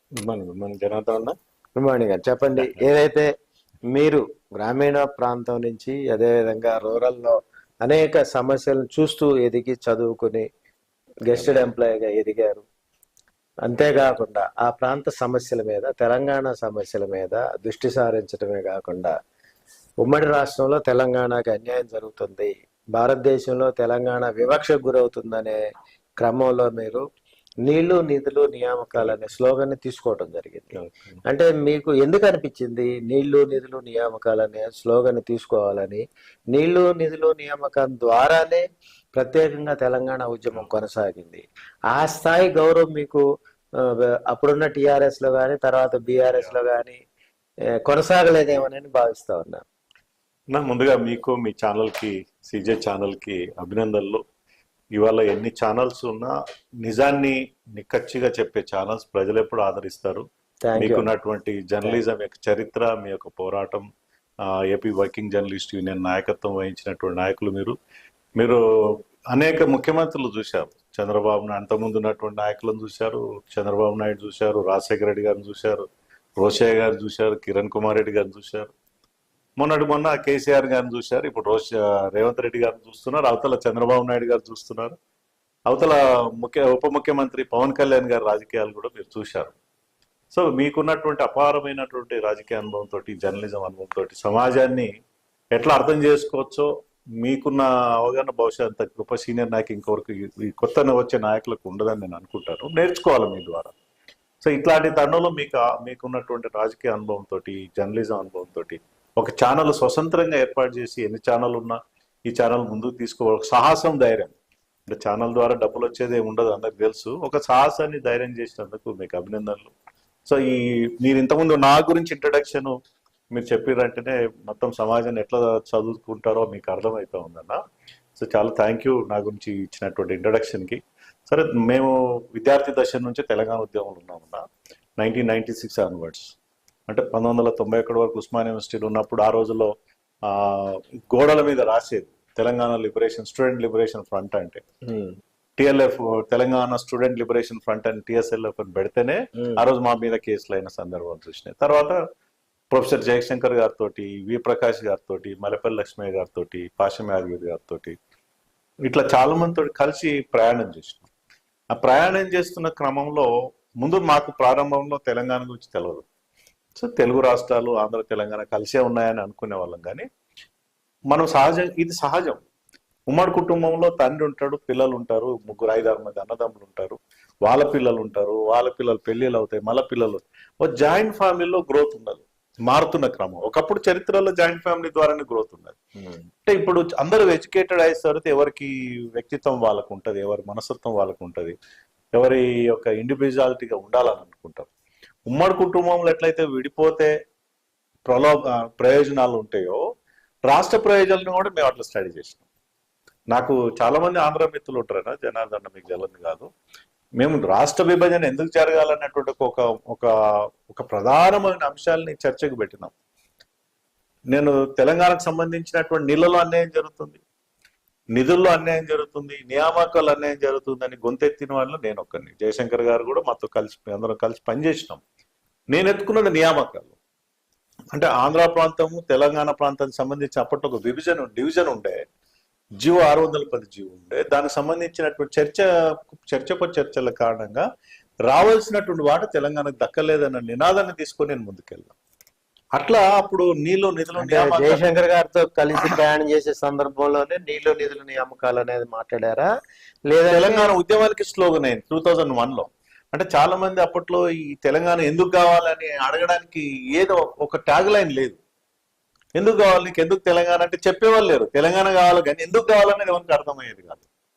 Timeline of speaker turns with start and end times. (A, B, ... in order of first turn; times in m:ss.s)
0:00.2-0:01.3 A
0:01.8-0:03.3 B
0:02.6-0:02.8 A
0:03.9-0:10.4 B
0:11.3-0:12.6 B
0:13.7-0:19.1 B
0:20.0-0:25.6 B
0:26.2-0:27.0 B
0:27.6-0:30.7 B
0:30.7-0:31.2 A
0:31.3-0:38.6 B
0:39.2-0:43.2 B
0:44.3-0:47.0 B
0:47.8-0:49.6 B
0:50.5-0:54.2 A
0:55.0-1:00.2 A
1:00.6-1:01.1 B
1:00.8-1:03.8 A
1:04.5-1:07.8 A
1:09.3-1:15.8 A
1:16.4-1:18.7 A
1:19.6-1:25.0 A
1:25.7-1:29.6 A
1:30.3-1:34.9 A
1:35.5-1:36.7 A
1:37.2-1:43.7 A
1:44.4-1:54.4 A
1:54.9-1:59.7 A
2:00.2-2:02.8 A
2:03.3-2:07.6 A
2:08.2-2:14.4 A
2:15.0-2:16.3 A
2:16.9-2:19.7 A
2:20.2-2:24.6 A
2:24.9-2:25.2 B
2:25.6-2:32.0 A
2:32.7-2:38.0 A
2:38.9-2:41.1 A
2:41.7-2:43.3 A
2:43.8-2:46.0 A
2:46.8-2:50.1 A
2:51.1-2:52.5 A
2:53.1-3:05.8 A
3:06.0-3:06.2 B
3:06.5-3:11.6 A
3:12.2-3:14.7 A
3:15.3-3:17.1 A
3:18.1-3:19.8 A
3:20.5-3:22.4 A
3:23.3-3:26.5 A
3:27.2-3:30.1 A
3:30.7-3:32.9 A
3:34.3-3:37.2 A
3:38.2-3:45.0 A
3:45.7-3:47.0 A
3:47.9-3:52.0 A
3:52.8-3:57.6 A
3:58.3-4:01.9 A
4:02.8-4:04.8 A
4:04.2-4:09.5 B
4:10.1-4:10.8 B
4:10.3-4:18.4 A
4:19.4-4:24.1 A